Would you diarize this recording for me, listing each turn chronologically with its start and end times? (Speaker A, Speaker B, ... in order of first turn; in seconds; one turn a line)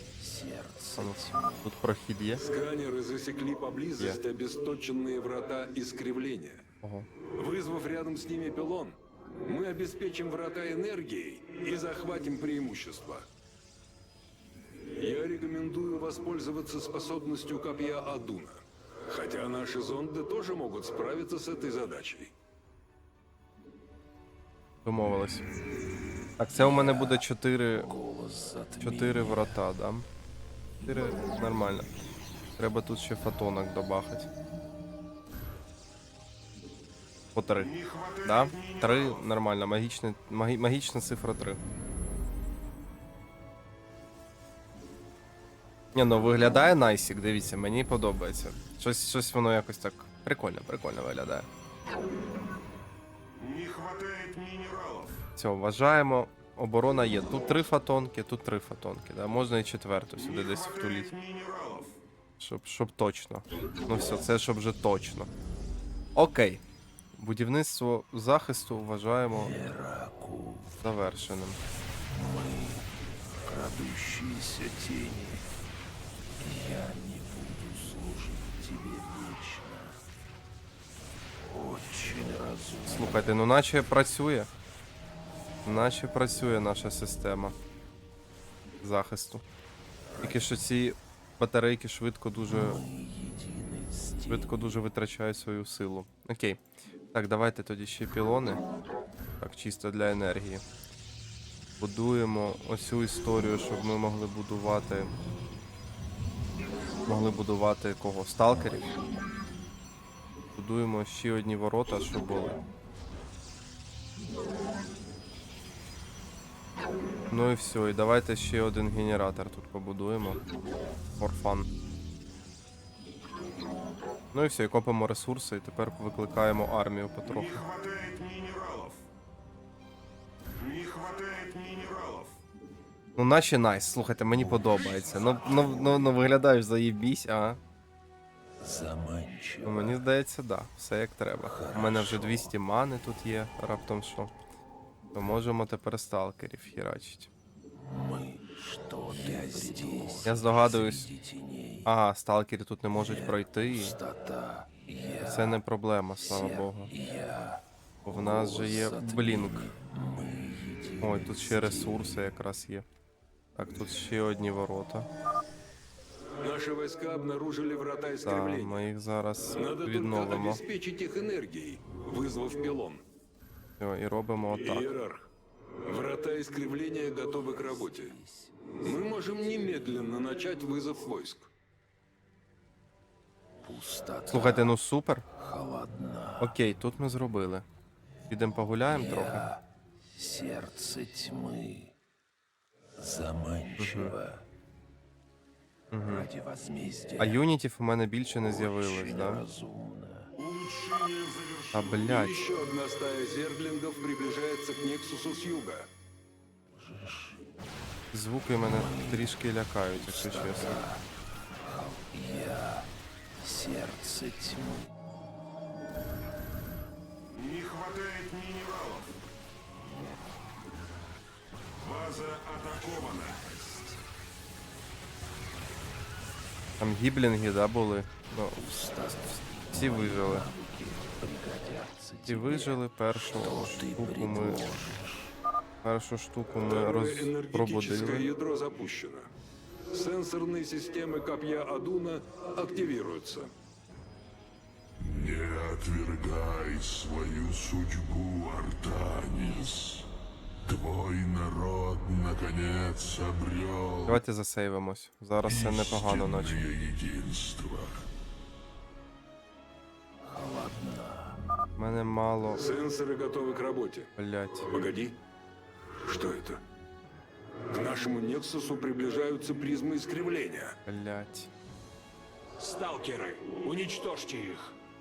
Speaker A: 0.2-1.7
Speaker B: 1.0-2.4
Speaker C: 2.4-6.6
Speaker B: 6.8-7.1
Speaker C: 7.4-13.3
Speaker C: 15.0-22.3
Speaker B: 24.9-25.4
Speaker B: 26.4-27.9
Speaker A: 27.8-29.5
Speaker B: 28.8-30.1
Speaker B: 30.8-31.9
Speaker B: 32.6-34.3
Speaker B: 37.4-41.6
Speaker B: 46.0-51.5
Speaker B: 55.4-61.2
Speaker B: 62.4-65.3
Speaker B: 66.2-66.6
Speaker B: 67.2-69.6
Speaker A: 69.4-70.7
Speaker B: 70.8-71.6
Speaker A: 72.1-72.9
Speaker A: 73.4-75.5
Speaker A: 76.4-80.0
Speaker A: 81.4-83.3
Speaker B: 82.9-84.5
Speaker B: 85.7-87.5
Speaker B: 88.8-89.4
Speaker B: 90.2-92.8
Speaker A: 92.5-94.5
Speaker B: 94.3-96.6
Speaker B: 97.1-98.6
Speaker B: 99.4-100.6
Speaker B: 101.8-105.1
Speaker B: 107.1-108.9
Speaker B: 110.5-112.6
Speaker B: 117.3-120.4
Speaker B: 121.2-121.7
Speaker B: 124.3-127.7
Speaker B: 133.2-137.6
Speaker A: 134.4-134.8
Speaker A: 135.6-136.1
Speaker A: 138.6-140.0
Speaker B: 139.7-144.3
Speaker A: 141.5-142.5
Speaker B: 145.1-147.3
Speaker A: 147.8-151.8
Speaker B: 150.2-151.1
Speaker B: 151.8-154.0
Speaker A: 153.0-155.6
Speaker B: 155.2-156.9
Speaker A: 156.2-162.2
Speaker B: 158.0-159.7
Speaker B: 161.0-162.9
Speaker B: 163.6-165.1
Speaker C: 166.4-168.9
Speaker B: 168.2-170.6
Speaker C: 169.6-173.0
Speaker B: 173.8-175.0
Speaker C: 174.6-175.2
Speaker C: 175.8-178.2
Speaker A: 177.4-178.9
Speaker C: 178.8-181.5
Speaker A: 183.6-184.7
Speaker B: 184.3-185.2
Speaker A: 185.4-186.5
Speaker B: 186.4-187.6
Speaker B: 188.3-189.5
Speaker A: 188.9-191.9
Speaker A: 193.0-194.4
Speaker B: 193.8-194.2
Speaker B: 195.9-196.3
Speaker A: 196.1-197.4
Speaker B: 197.2-199.5
Speaker A: 198.4-200.3
Speaker C: 200.6-201.3
Speaker B: 201.7-202.3
Speaker C: 201.9-205.9
Speaker A: 206.8-207.4
Speaker B: 208.1-210.8
Speaker A: 208.7-209.3
Speaker A: 209.9-211.0
Speaker A: 211.7-212.9
Speaker A: 213.4-214.9
Speaker A: 222.2-224.0
Speaker B: 226.8-229.2
Speaker A: 228.6-235.3
Speaker B: 229.7-230.5
Speaker B: 232.3-234.7
Speaker B: 235.8-238.3
Speaker C: 236.6-239.3
Speaker C: 239.9-243.5
Speaker D: 245.0-250.1
Speaker D: 250.7-254.2
Speaker B: 254.1-256.6
Speaker D: 255.4-258.0
Speaker A: 260.2-261.4
Speaker B: 261.8-262.6
Speaker C: 262.6-264.1
Speaker B: 264.2-264.7
Speaker C: 264.7-265.2
Speaker C: 266.0-266.6
Speaker C: 267.7-270.8
Speaker B: 270.9-271.5
Speaker E: 272.6-274.7